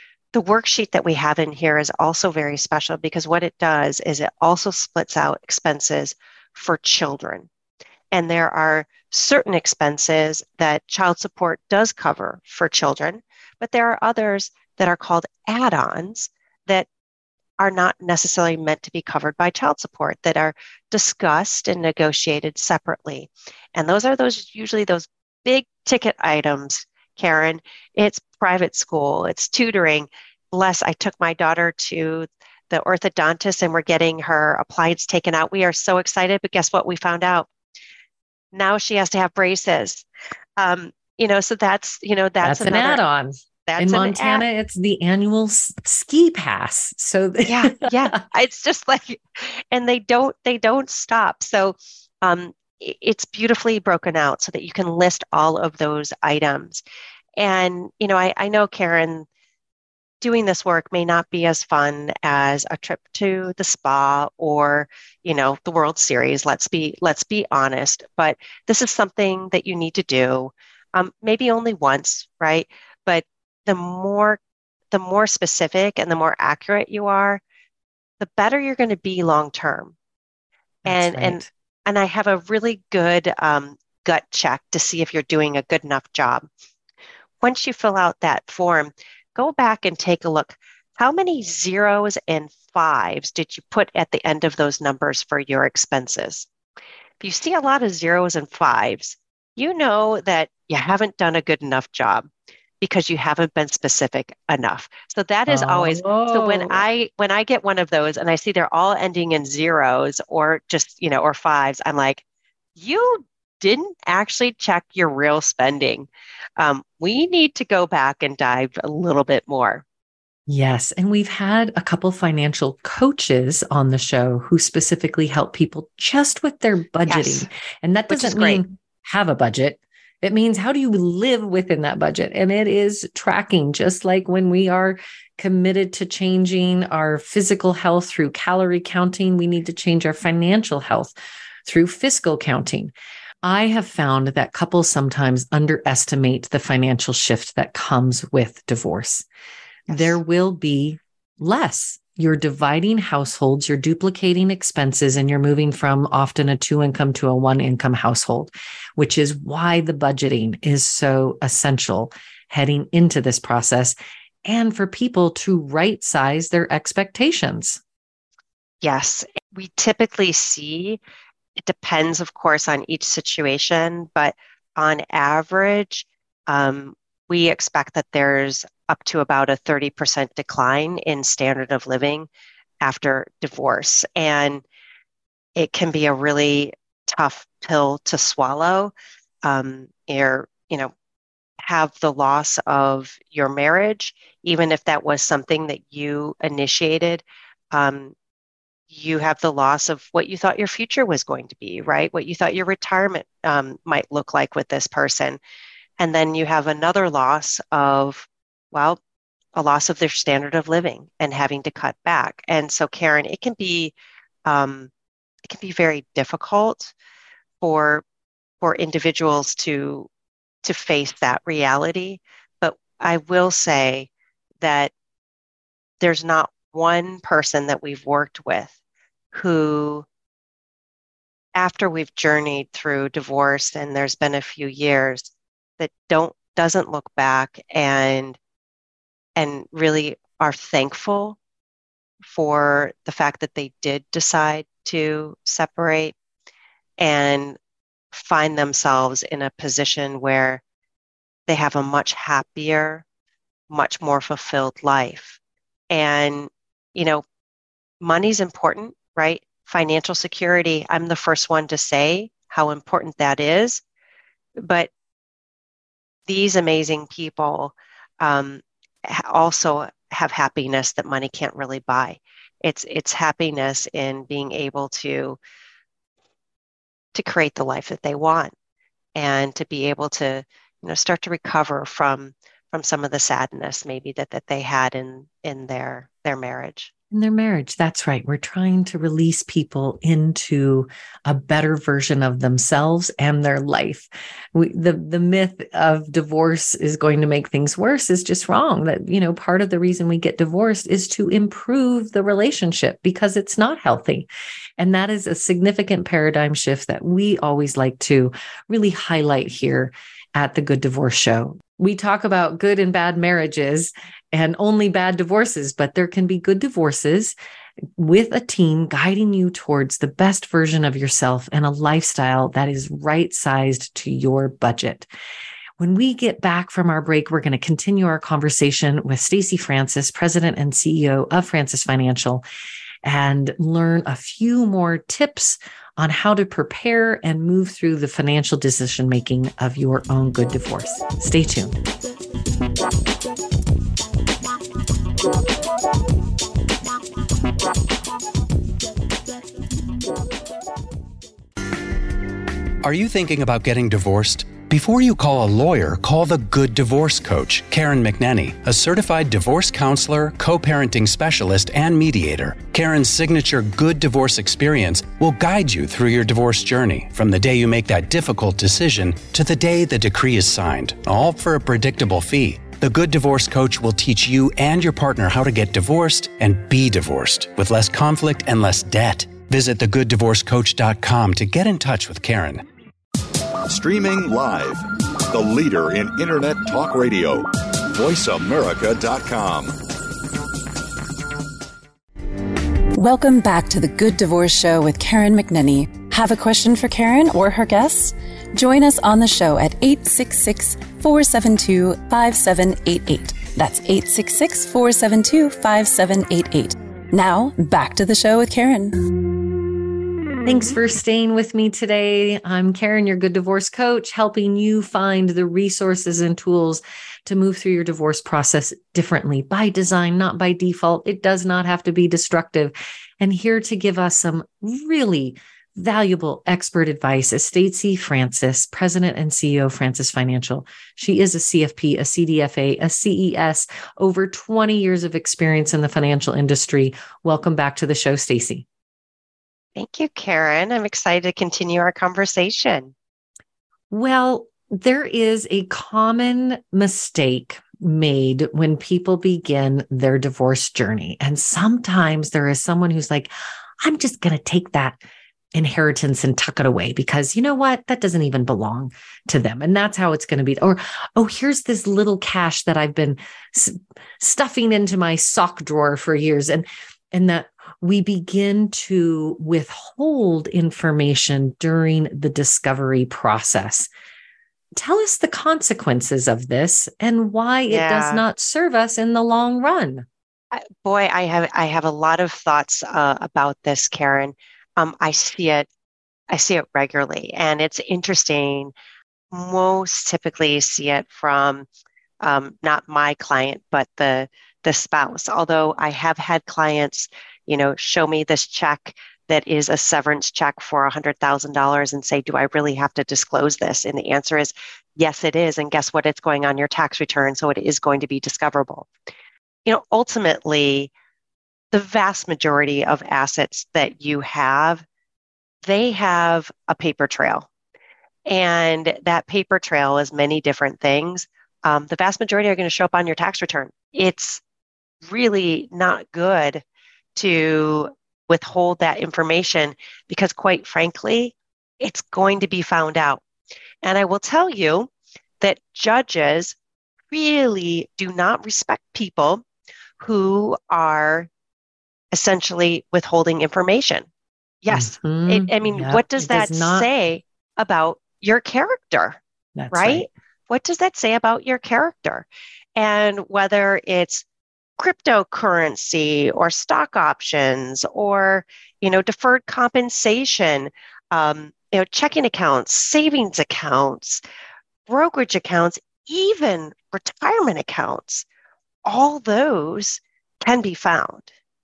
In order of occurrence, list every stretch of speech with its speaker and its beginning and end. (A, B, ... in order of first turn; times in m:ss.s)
0:00.3-0:07.5 A
0:08.1-0:16.9 A
0:17.6-0:37.5 A
0:38.5-0:40.1 A
0:40.6-0:43.0 A
0:42.4-0:48.2 B
0:43.7-0:44.4 A
0:47.4-0:56.8 A
0:57.4-0:59.3 A
1:00.2-1:14.4 A
1:14.9-1:17.4 A
1:18.2-1:20.0 A
1:20.8-1:26.5 A
1:20.8-1:21.5 B
1:27.4-1:36.5 A
1:37.2-1:42.3 A
1:42.8-1:52.2 A
1:45.5-1:46.8 B
1:52.8-1:59.8 A
2:00.5-2:21.1 B
2:07.1-2:07.5 A
2:08.1-2:08.6 A
2:21.7-2:29.2 B
2:29.9-2:47.8 B
2:29.9-2:30.2 A
2:48.8-2:51.0 A
2:51.6-3:02.3 A
3:02.8-3:04.6 A
3:05.6-3:08.9 A
3:09.4-3:10.9 A
3:11.6-3:18.2 A
3:18.9-3:25.4 A
3:26.0-3:29.0 A
3:29.6-3:34.0 A
3:34.5-3:34.9 A
3:35.5-3:36.9 A
3:37.6-3:38.0 A
3:38.6-3:40.1 A
3:40.6-3:44.1 A
3:44.6-3:44.9 A
3:46.0-3:48.7 A
3:49.3-3:50.1 A
3:51.6-3:58.4 A
3:59.4-4:01.4 A
4:02.3-4:06.2 A
4:07.0-4:07.6 A
4:08.1-4:10.6 A
4:11.5-4:13.0 A
4:13.7-4:15.4 A
4:15.9-4:17.2 A
4:18.0-4:23.8 A
4:24.6-4:24.9 A
4:26.3-4:35.4 A
4:37.1-4:38.5 A
4:39.2-4:46.9 A
4:47.1-5:17.3 B
5:18.0-5:25.1 B
5:25.8-5:32.4 B
5:33.0-5:41.8 B
5:52.8-6:22.6 C
6:23.7-6:29.8 D
6:33.0-6:49.1 E
6:50.4-7:18.6 B
7:19.8-7:22.9 A
7:23.9-7:33.3 B
7:33.8-7:35.0 B
7:35.5-7:53.9 B
7:54.8-8:00.1 B
7:57.7-7:58.2 A
8:00.5-8:05.7 A
8:06.3-8:08.7 A
8:09.3-8:11.7 A
8:12.2-8:28.9 A
8:29.7-8:30.9 A
8:31.7-8:34.8 A
8:35.6-8:37.5 A
8:38.3-8:44.4 A
8:45.1-8:46.6 A
8:47.2-8:53.2 A
8:53.8-8:54.9 A
8:55.4-8:56.6 A
8:57.1-8:59.4 A
9:00.0-9:01.3 A
9:02.1-9:04.1 A
9:04.6-9:09.2 A
9:04.7-9:06.9 B
9:09.6-9:10.1 B
9:09.7-9:14.2 A
9:14.8-9:24.2 A
9:24.9-9:28.3 A
9:28.8-9:31.3 A